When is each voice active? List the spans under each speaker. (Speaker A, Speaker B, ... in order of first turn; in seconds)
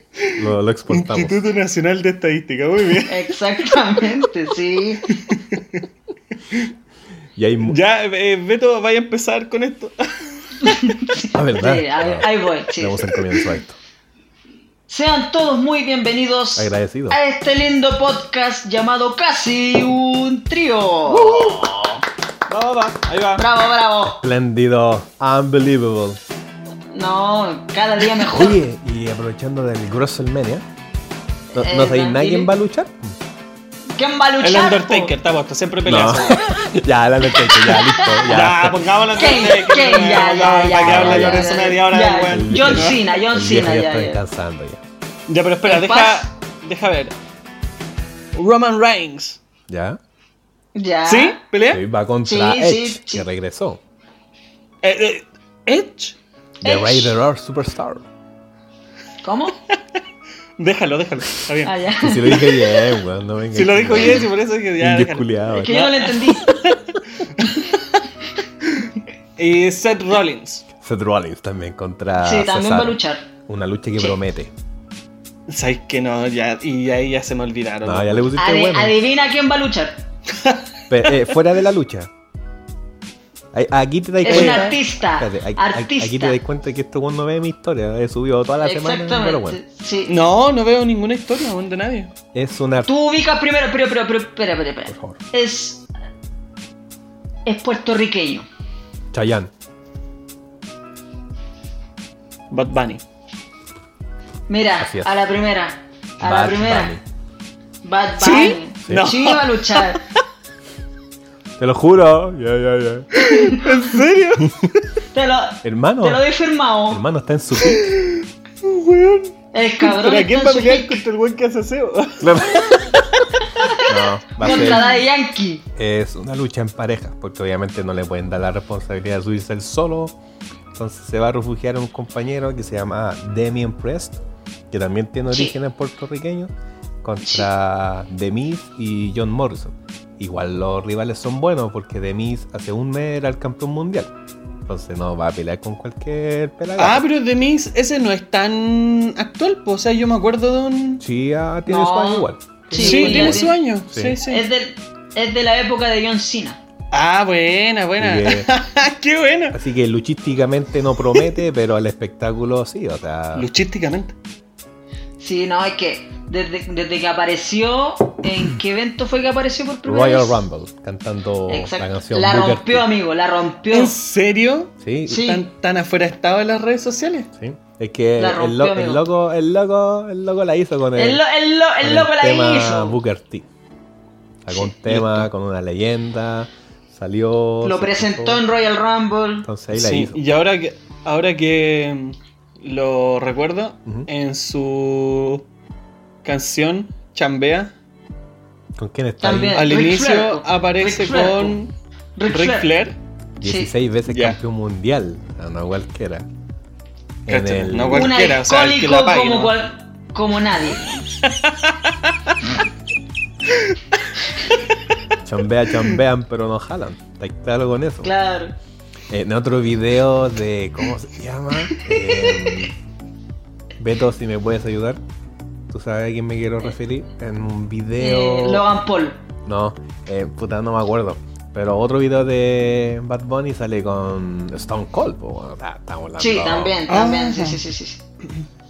Speaker A: 0.2-3.4, 5.3-5.8, 7.7-10.8, 21.1-23.4, 34.4-36.8, 38.0-43.0, 45.3-47.1, 48.3-49.4, 51.1-51.9, 54.8-56.2, 60.6-61.8, 63.5-67.8, 68.7-70.7, 75.5-78.3, 80.3-81.3, 84.3-84.7, 90.1-92.1, 102.5-103.0, 108.2-110.0, 113.2-114.9, 117.6-122.8, 146.8-151.0, 152.7-154.4, 156.9-159.6, 163.3-164.1, 173.7-177.3, 184.8-185.3, 189.7-195.4, 196.2-197.7, 199.5-201.7, 202.3-203.0, 204.1-204.4, 207.3-209.5, 211.2-212.3, 236.9-237.6
Speaker B: 0.3-1.4, 7.3-7.8, 11.3-13.8, 16.6-17.2, 24.1-26.2, 28.2-30.6, 31.5-33.1, 35.9-38.8, 40.8-41.6, 42.2-44.8, 49.7-50.0, 51.7-53.8, 56.6-58.0, 62.0-65.7, 70.8-74.5, 77.8-79.0, 80.9-82.1, 83.5-89.6, 92.3-92.9, 94.9-95.2, 99.1-99.5, 104.8-105.1, 106.2-107.0, 108.8-109.2, 111.6-113.2, 115.6-116.2, 116.9-117.9, 122.2-124.9, 125.7-130.2, 130.7-136.5, 137.0-144.1, 144.7-147.1, 151.0-154.2, 158.0-158.5, 159.5-163.5, 169.8-172.9, 174.8-175.2, 177.4-181.2, 181.8-183.4, 184.4-188.4, 189.4-190.2, 198.7-199.7, 203.4-206.2, 207.2-208.2, 215.2-218.1, 219.1-222.7, 223.8-225.0, 225.7-228.6, 229.4-236.8
Speaker C: 3.1-5.1, 10.6-13.1, 14.9-21.9, 23.4-24.2, 26.9-28.6, 31.5-32.5, 34.0-35.1, 39.1-44.2, 45.6-46.3, 50.7-51.4, 52.2-53.2, 56.6-57.1, 59.2-59.5, 61.6-62.6, 65.6-66.5, 72.2-73.2, 78.4-80.0, 84.2-86.4, 88.6-90.1, 92.8-95.8, 97.5-98.5, 104.5-106.9, 107.8-110.0, 113.3-113.7, 115.1-117.0, 119.5-121.0, 123.5-123.8, 124.4-125.6, 135.3-135.6, 137.2-137.5, 151.7-153.6, 154.2-156.6, 165.2-170.4, 171.5-173.9, 175.1-175.4, 178.2-179.0, 180.9-183.0, 187.6-189.5, 199.2-201.6, 202.2-202.7, 203.4-203.7, 207.9-211.2, 218.0-218.5, 228.0-229.2, 236.2-238.0